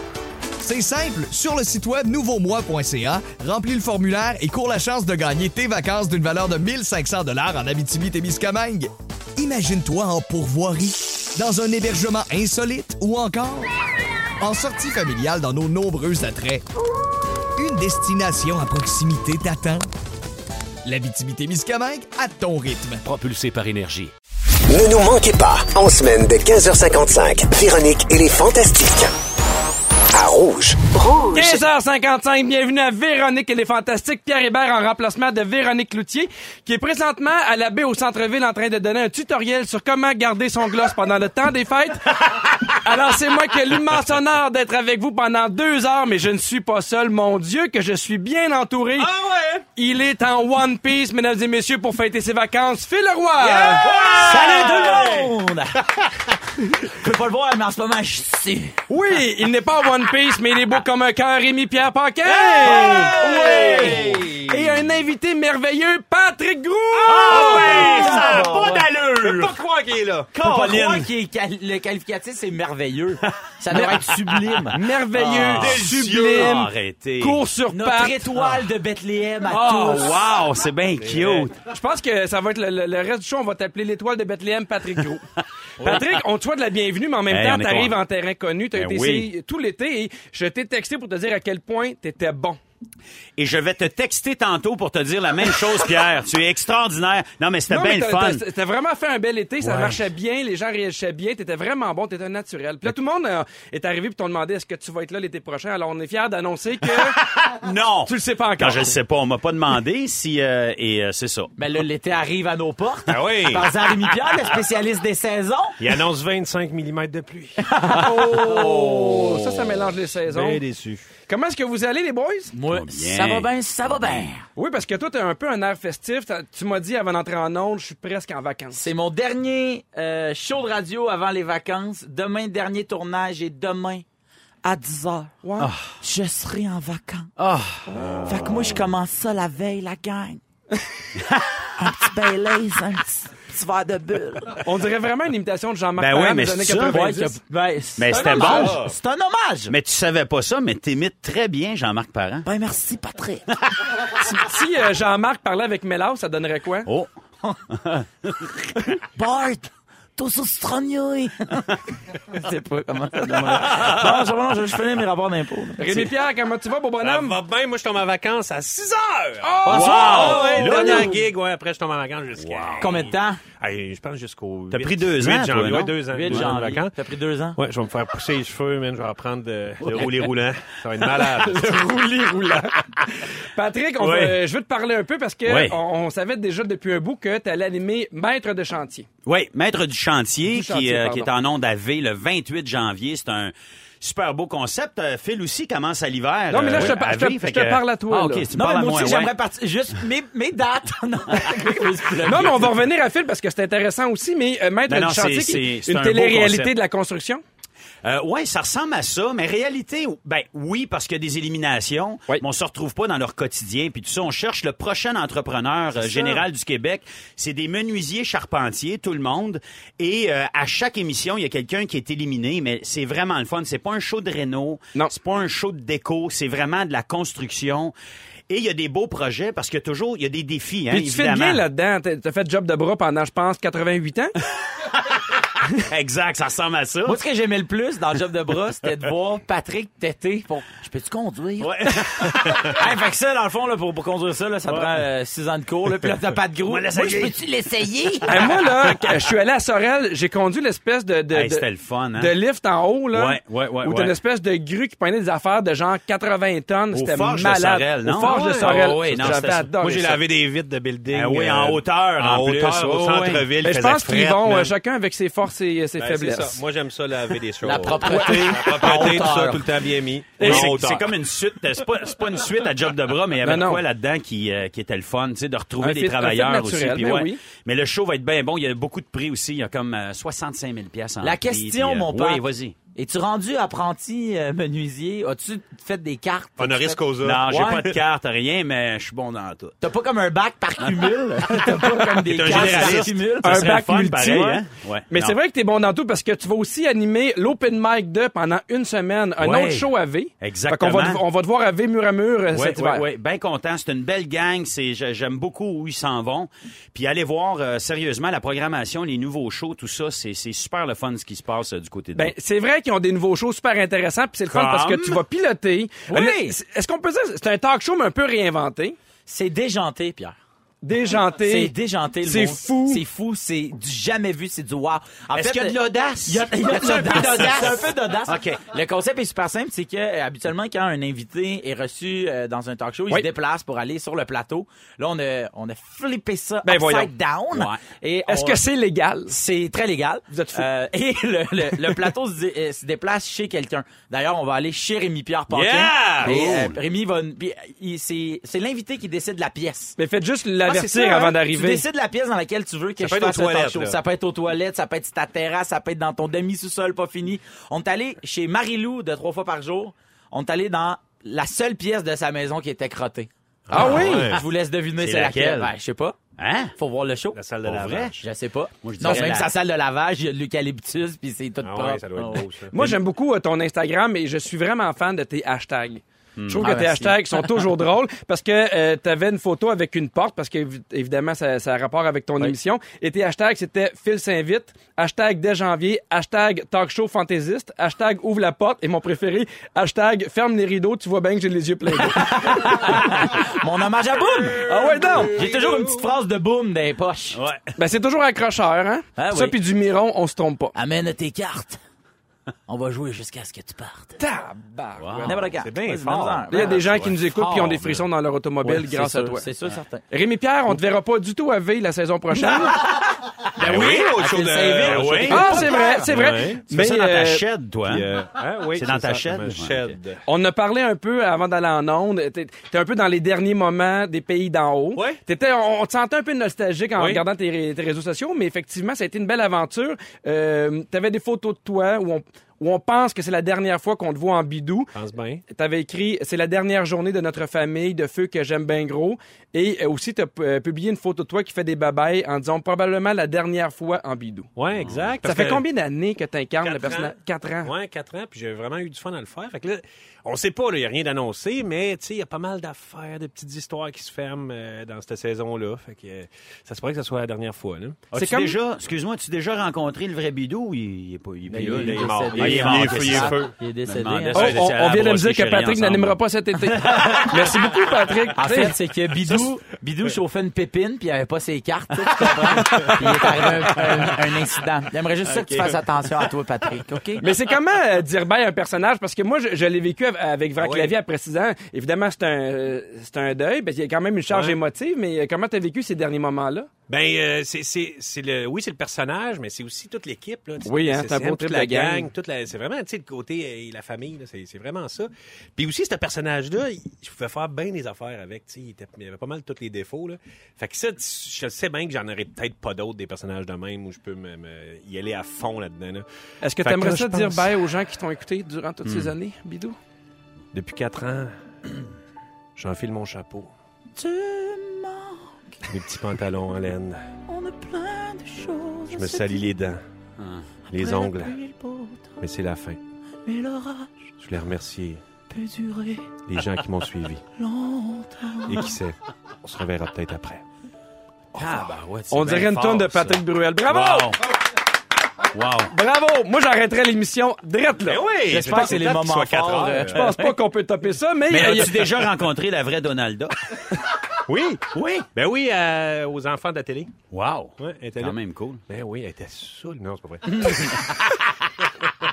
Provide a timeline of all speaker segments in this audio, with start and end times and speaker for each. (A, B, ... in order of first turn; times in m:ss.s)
0:00.6-0:13.7 A
0:14.4-0:16.6 A
0:17.6-0:19.9 A
0:20.8-0:23.0 A
0:23.1-0:24.1 B
0:24.7-0:29.1 C
0:30.1-0:31.6 C
0:31.3-0:49.1 D
0:49.1-0:49.4 B
0:49.8-0:53.9 D
0:53.5-0:55.3 B
0:53.8-0:55.3 E
0:53.9-0:55.8 F
0:56.8-0:58.8 F
0:58.9-1:04.0 D
1:02.6-1:04.2 F
1:02.7-1:04.4 B
1:02.7-1:04.4 E
1:04.5-1:08.6 D
1:07.1-1:09.6 E
1:07.1-1:11.0 B
1:07.3-1:08.8 F
1:10.4-1:15.8 F
1:10.4-1:11.1 E
1:13.8-1:14.6 E
1:14.7-1:18.2 D
1:15.6-1:17.4 E
1:15.6-1:16.5 B
1:17.7-1:20.1 F
1:19.5-1:20.1 D
1:19.8-1:21.6 E
1:21.0-1:21.5 B
1:21.7-1:25.2 D
1:25.8-1:26.0 B
1:25.8-1:32.6 D
1:27.3-1:28.0 E
1:28.7-1:29.3 E
1:33.4-1:38.4 E
1:37.7-1:47.2 D
1:39.6-1:40.0 E
1:47.4-1:51.5 E
1:48.1-1:49.0 D
1:51.6-1:55.8 F
1:53.1-1:53.7 B
1:55.8-1:57.6 B
1:57.7-1:58.6 F
1:57.9-2:00.6 D
1:58.6-1:59.1 B
2:00.3-2:01.1 B
2:01.3-2:02.5 D
2:02.5-2:04.4 F
2:02.7-2:04.3 E
2:04.6-2:08.8 D
2:08.7-2:14.0 F
2:14.6-2:15.4 F
2:15.4-2:15.7 D
2:15.6-2:15.9 E
2:16.0-2:17.3 F
2:17.4-2:17.8 E
2:17.9-2:18.2 D
2:18.2-2:20.4 F
2:21.8-2:24.6 F
2:24.6-2:27.4 D
2:26.0-2:27.0 E
2:26.9-2:29.7 F
2:28.0-2:28.9 E
2:29.7-2:32.5 E
2:32.4-2:33.6 F
2:34.1-2:36.9 D
2:37.7-2:38.5 E
2:38.8-2:46.1 F
2:43.3-2:44.3 B
2:45.8-2:47.4 D
2:47.0-2:57.0 B
2:49.4-2:51.2 D
2:49.7-2:51.2 E
2:49.7-2:50.7 F
2:52.4-2:52.9 E
2:52.8-2:53.4 F
2:54.7-2:56.6 E
2:56.1-2:57.6 F
2:57.6-3:01.8 B
3:01.4-3:09.1 D
3:04.0-3:04.4 E
3:05.5-3:05.8 E
3:09.3-3:19.3 E
3:10.5-3:11.3 D
3:16.5-3:18.5 D
3:18.5-3:22.7 F
3:22.2-3:27.4 D
3:24.9-3:26.8 E
3:28.0-3:47.9 E
3:36.0-3:36.4 D
3:48.5-3:51.6 E
3:50.9-3:54.3 D
3:55.8-3:57.2 E
3:57.1-4:08.5 F
4:01.6-4:02.1 E
4:02.4-4:02.7 B
4:06.7-4:07.4 E
4:08.3-4:20.2 D
4:11.3-4:12.4 E
4:13.1-4:14.2 E
4:16.9-4:19.7 E
4:18.2-4:24.7 B
4:21.1-4:23.5 E
4:23.6-4:26.6 D
4:26.0-4:31.1 B
4:27.6-4:29.8 F
4:28.0-4:28.6 D
4:30.4-4:30.7 D
4:30.4-4:42.8 E
4:33.4-4:33.8 D
4:35.8-4:37.4 D
4:41.2-4:42.4 F
4:43.0-4:47.8 F
4:46.6-4:47.5 B
4:47.2-4:49.8 E
4:49.8-4:53.7 F
4:52.3-4:55.4 E
4:52.5-4:53.0 B
4:53.4-5:03.0 D
4:59.4-4:59.9 E
5:00.4-5:01.2 E
5:02.5-5:12.3 E
5:12.2-5:19.0 D
5:14.5-5:15.2 E
5:16.1-5:16.6 F
5:19.3-5:20.4 F
5:20.8-5:23.0 D
5:21.4-5:38.6 F
5:25.4-5:28.6 E
5:36.6-5:37.1 D
5:37.5-5:37.8 E
5:38.3-5:39.3 D
5:39.3-5:50.0 F
5:40.3-5:40.7 D
5:45.5-5:46.7 B
5:46.2-5:46.8 E
5:50.0-5:51.8 D
5:50.7-6:06.2 F
5:53.0-5:54.0 B
6:03.7-6:04.4 B
6:03.7-6:04.3 D
6:05.0-6:05.7 E
6:06.4-6:06.7 E
6:06.8-6:07.4 F
6:07.3-6:08.2 B
6:07.6-6:08.1 E
6:08.2-6:12.4 F
6:08.8-6:09.5 E
6:11.6-6:13.0 B
6:12.7-6:33.2 D
6:16.4-6:16.7 E
6:16.6-6:17.5 F
6:32.0-6:37.4 F
6:34.6-6:35.4 D
6:35.4-6:36.0 B
6:37.4-6:37.7 E
6:37.8-6:40.7 D
6:39.2-6:39.6 F
6:40.8-6:41.8 F
6:42.7-6:44.2 F
6:44.2-6:45.3 D
6:45.0-6:45.4 E
6:45.2-6:47.8 F
6:45.6-6:47.1 B
6:46.5-6:49.5 D
6:48.6-6:50.0 F
6:50.1-6:52.8 D
6:52.4-6:56.1 F
6:53.6-6:56.6 B
6:53.7-6:54.0 E
6:54.7-6:55.7 E
6:55.3-6:57.4 D
6:56.7-6:58.1 E
6:57.9-7:00.2 B
6:58.8-6:59.9 E
7:00.3-7:14.9 D
7:05.0-7:05.2 B
7:07.0-7:07.2 B
7:14.9-7:15.4 B
7:15.5-7:24.5 D
7:24.6-7:25.6 B
7:24.8-7:25.2 E
7:25.2-7:27.7 D
7:26.6-7:38.0 B
7:38.1-7:38.6 D
7:38.1-7:46.2 E
7:41.5-7:43.6 B
7:41.5-7:44.6 F
7:44.3-7:48.7 D
7:46.8-7:47.5 F
7:48.4-7:57.2 F
7:52.6-7:54.1 B
7:55.3-7:55.8 B
7:57.2-8:06.7 D
8:00.6-8:01.0 B
8:04.3-8:04.6 B
8:06.9-8:26.1 B
8:10.6-8:12.1 D
8:26.4-8:29.8 D
8:26.6-8:27.5 B
8:28.9-8:29.1 E
8:30.5-8:31.3 B
8:32.6-8:33.5 B
8:34.0-8:35.6 F
8:35.7-8:37.0 B
8:37.3-8:39.5 F
8:38.9-8:39.8 B
8:40.2-8:40.4 E
8:40.7-8:41.4 B
8:40.7-8:42.2 F
8:42.2-8:42.8 B
8:43.3-8:44.1 F
8:44.2-8:45.0 B
8:45.3-8:46.2 F
8:46.3-8:47.2 B
8:47.4-8:48.8 F
8:48.5-8:50.4 B
8:51.4-8:54.2 E
8:51.4-8:51.7 B
8:51.5-8:51.8 F
8:52.1-8:54.2 D
8:55.3-8:55.7 E
8:55.7-8:58.8 D
8:57.8-9:00.1 B
8:58.3-9:00.1 F
8:59.9-9:01.9 D
9:01.3-9:03.4 E
9:04.3-9:06.9 B
9:04.7-9:05.1 F
9:07.1-9:08.6 E
9:07.6-9:08.2 B
9:08.7-9:11.1 B